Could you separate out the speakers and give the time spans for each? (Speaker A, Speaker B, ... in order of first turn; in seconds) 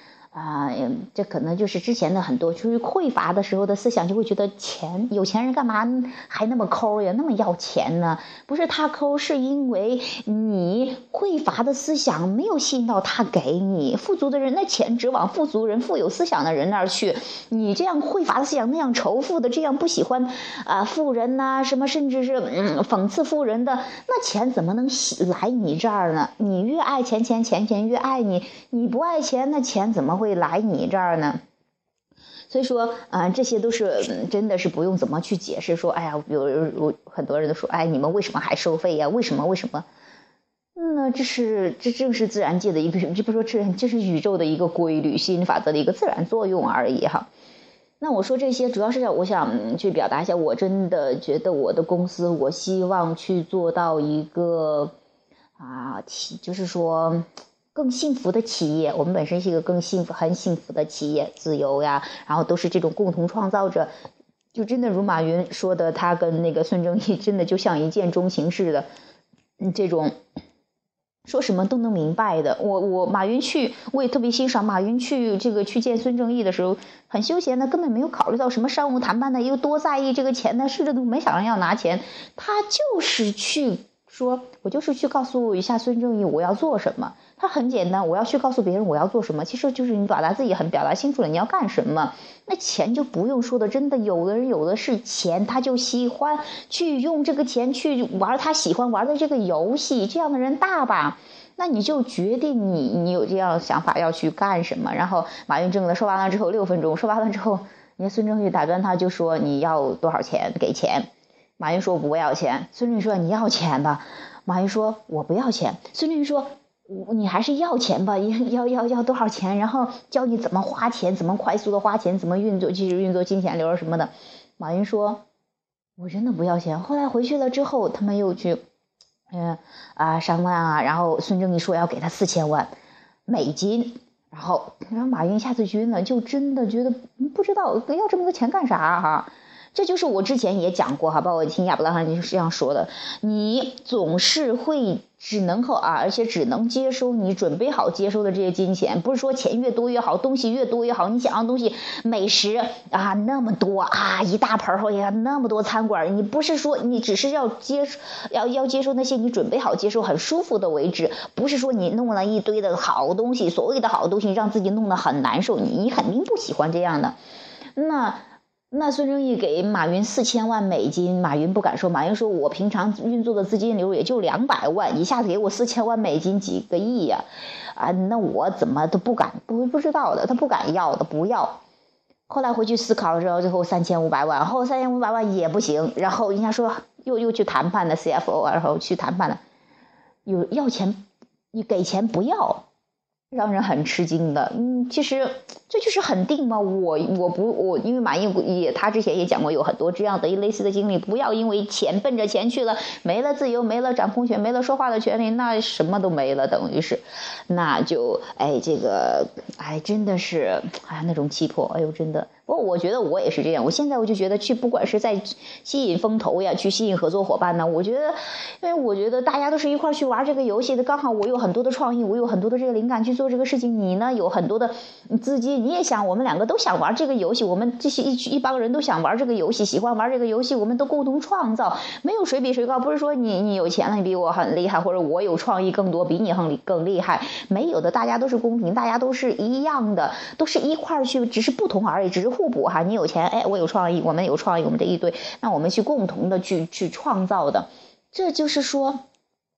Speaker A: 0.3-31.4, 32.5-39.9, 40.8-47.3, 48.0-54.9, 55.6-63.9, 64.5-68.9, 69.6-70.1, 71.3-125.2, 126.0-128.6, 129.3-132.7, 133.3-167.2, 167.8-177.2, 177.8-181.6, 182.3-189.4, 190.3-191.0, 191.5-192.6, 193.3-249.0